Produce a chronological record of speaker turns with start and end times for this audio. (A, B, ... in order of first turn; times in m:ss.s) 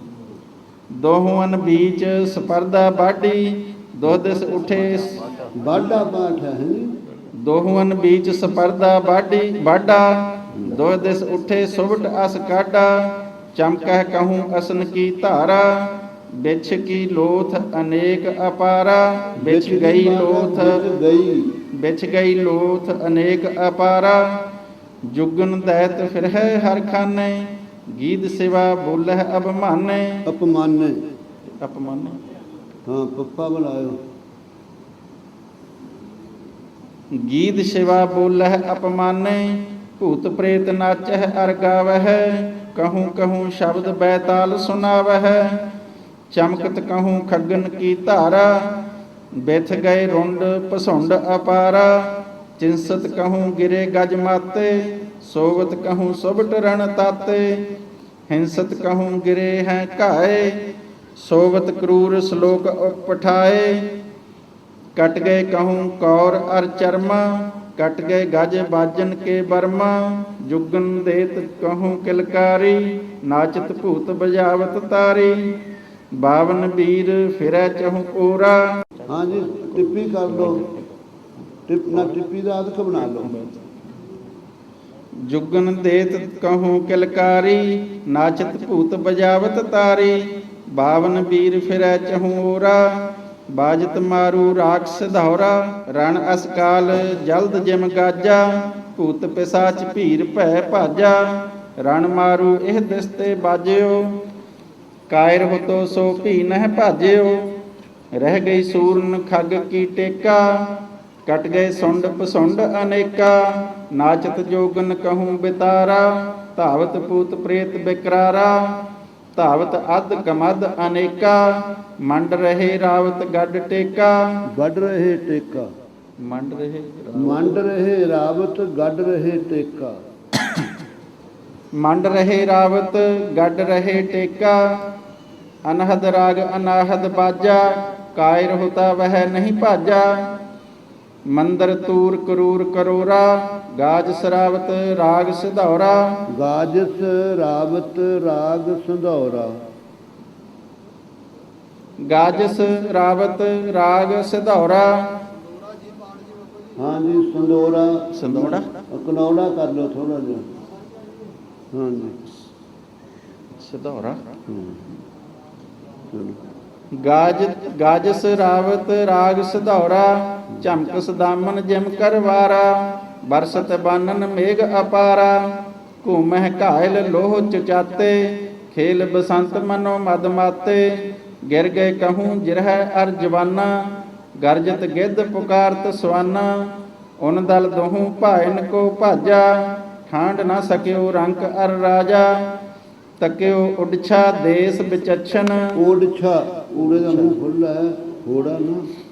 0:00.9-0:05.2 A
0:05.6-0:06.9 B
0:07.4-0:20.8 A
0:10.5-0:10.8 B
0:19.4-0:21.5 B
0:21.7-0:24.5 A
0:25.1-0:30.2 A
0:30.3-0:31.0 B
0:31.6-0:32.2 A
0:32.9-0:34.0 B
0:37.1-0:45.8 A
0:46.3-0:57.7 A
0:58.3-1:04.0 A
1:04.9-1:15.5 A
1:16.2-1:18.9 A
1:19.1-1:20.7 B
1:21.7-1:23.3 B
1:23.2-1:23.6 A
1:25.2-1:44.2 A
1:45.1-1:47.4 A
1:48.2-1:58.8 A
1:59.3-2:04.2 A
2:04.5-2:05.7 B
2:06.2-2:07.6 A
2:07.2-2:09.9 B
2:11.8-2:14.6 A
2:15.6-2:20.4 A
2:21.3-2:26.2 A
2:26.3-2:29.5 B
2:32.0-2:35.2 A
2:36.8-2:40.5 B
2:38.1-2:38.8 A
2:41.7-2:42.2 B
2:43.6-2:44.2 A
2:44.5-2:44.9 B
2:46.1-2:46.4 B
2:47.0-3:03.7 A
3:04.4-3:06.5 A
3:07.2-3:12.6 A
3:13.2-3:15.7 A
3:15.7-3:18.8 B